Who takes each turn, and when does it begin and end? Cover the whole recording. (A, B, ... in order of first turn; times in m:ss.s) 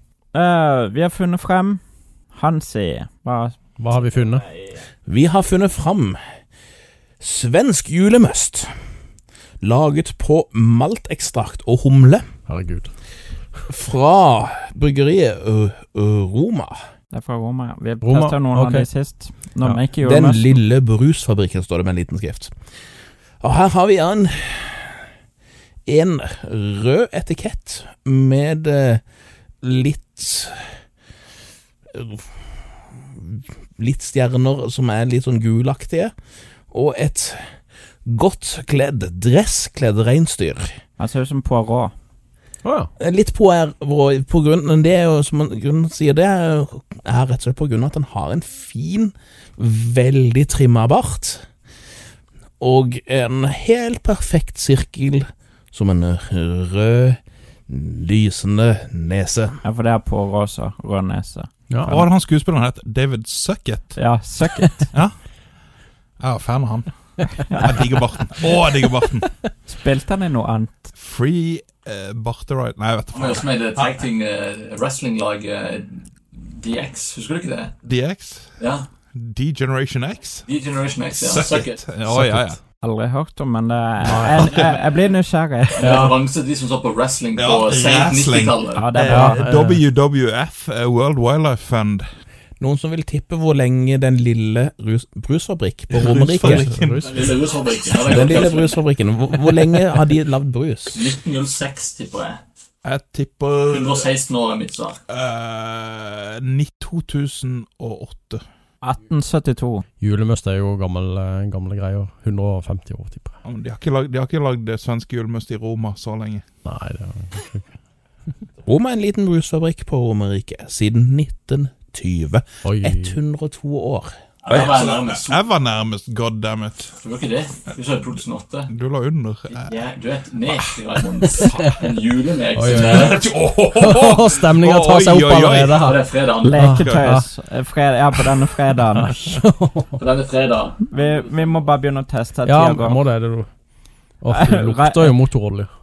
0:00.3-0:01.8 A
0:02.3-0:03.6 A
0:03.8-0:04.4 B
0:05.1-0:06.2 C
0:07.2-0:08.7 C
0:09.6-0:12.2 C
0:12.5-0:12.9 B
0:13.7-0:16.8 C
0:17.1-0:20.6 A
0:18.0-0:18.9 B
0:20.0-0:22.5 C
0:23.4-0:25.1 C
0:25.8-0:29.0 C
0:29.6-0:30.8 C
0:31.9-0:36.1 C
0:36.7-0:37.5 C
0:38.0-0:40.8 C
0:41.0-0:41.9 A
0:42.6-0:42.9 B
0:43.0-0:51.4 C
0:52.6-0:57.2 C
0:57.7-0:59.5 C
0:59.6-1:02.1 A
1:01.8-1:04.0 D
1:04.0-1:04.9 A
1:06.2-1:09.3 D
1:09.6-1:10.9 A
1:10.9-1:14.0 D
1:13.1-1:17.7 E
1:17.8-1:18.6 D
1:18.6-1:18.9 E
1:19.1-1:20.5 D
1:20.5-1:21.8 E
1:21.1-1:22.6 D
1:22.1-1:22.6 B
1:22.8-1:26.0 A
1:24.0-1:24.4 B
1:24.4-1:24.8 E
1:24.4-1:24.8 D
1:25.7-1:28.9 E
1:25.8-1:26.1 B
1:27.4-1:32.0 D
1:28.7-1:29.4 A
1:29.1-1:29.8 B
1:32.6-1:36.3 C
1:35.9-1:37.0 D
1:36.1-1:37.3 B
1:37.0-1:38.8 E
1:38.1-1:41.0 C
1:40.9-1:42.4 E
1:42.8-1:44.1 D
1:43.7-1:45.0 E
1:45.1-1:48.4 D
1:48.8-1:49.8 A
1:50.0-1:53.4 B
1:53.4-1:56.4 D
1:56.6-1:57.7 B
1:58.6-2:04.1 C
2:02.6-2:03.2 B
2:04.4-2:05.4 E
2:04.5-2:06.9 D
2:06.9-2:08.7 E
2:08.7-2:09.7 D
2:09.5-2:13.9 E
2:11.3-2:11.6 D
2:12.5-2:16.0 B
2:12.7-2:15.9 D
2:15.8-2:16.6 E
2:16.4-2:19.2 A
2:16.5-2:17.3 B
2:16.6-2:17.1 D
2:19.2-2:20.0 B
2:20.0-2:21.6 E
2:20.9-2:23.0 A
2:22.4-2:25.7 B
2:24.3-2:25.1 A